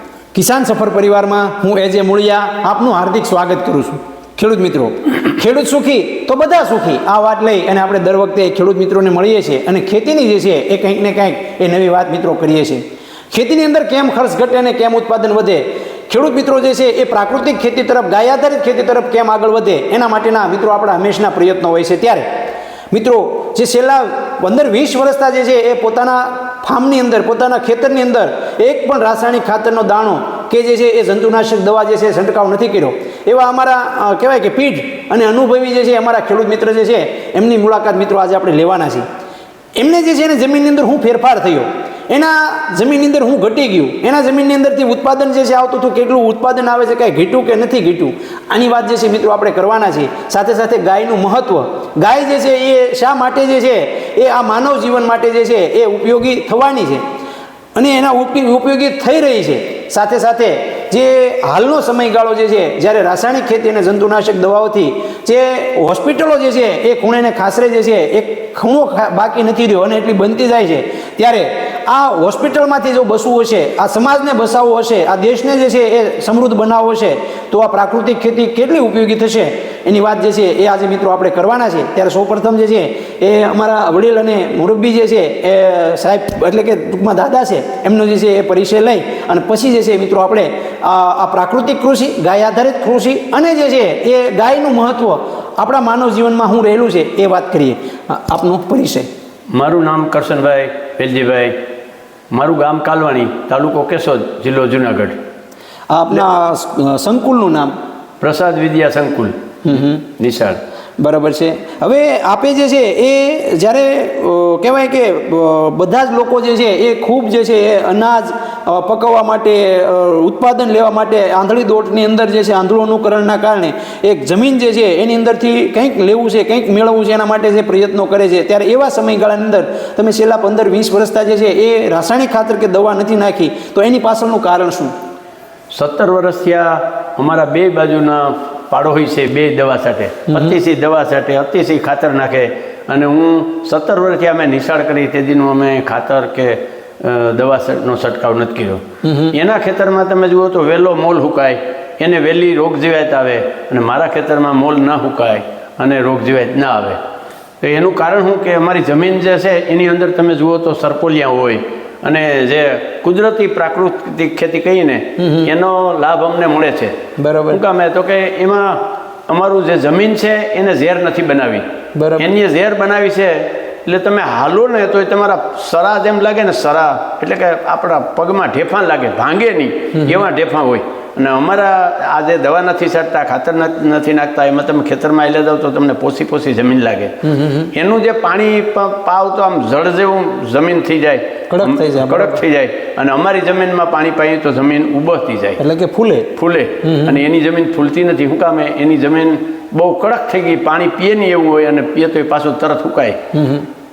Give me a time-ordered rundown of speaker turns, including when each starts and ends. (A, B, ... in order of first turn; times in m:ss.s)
0:00.3-0:22.3 A
0:22.9-0:39.0 A
0:39.8-0:57.0 A
0:57.8-1:39.1 A
1:39.5-1:41.6 B
1:42.3-1:45.2 B
1:45.9-1:47.7 A
1:48.2-1:50.6 B
1:49.7-1:50.0 A
1:51.0-2:14.9 A
2:15.7-2:37.0 B
2:29.0-2:29.3 A
2:37.6-2:47.0 B
2:45.2-2:45.5 A
2:47.2-2:47.6 A
2:47.5-2:51.6 B
2:52.0-2:52.3 A
2:52.2-3:07.2 B
3:07.2-3:07.7 A
3:07.7-3:15.6 B
3:11.5-3:12.4 A
3:15.6-3:16.3 A
3:16.4-3:23.2 B
3:16.8-3:17.2 A
3:23.3-3:23.7 A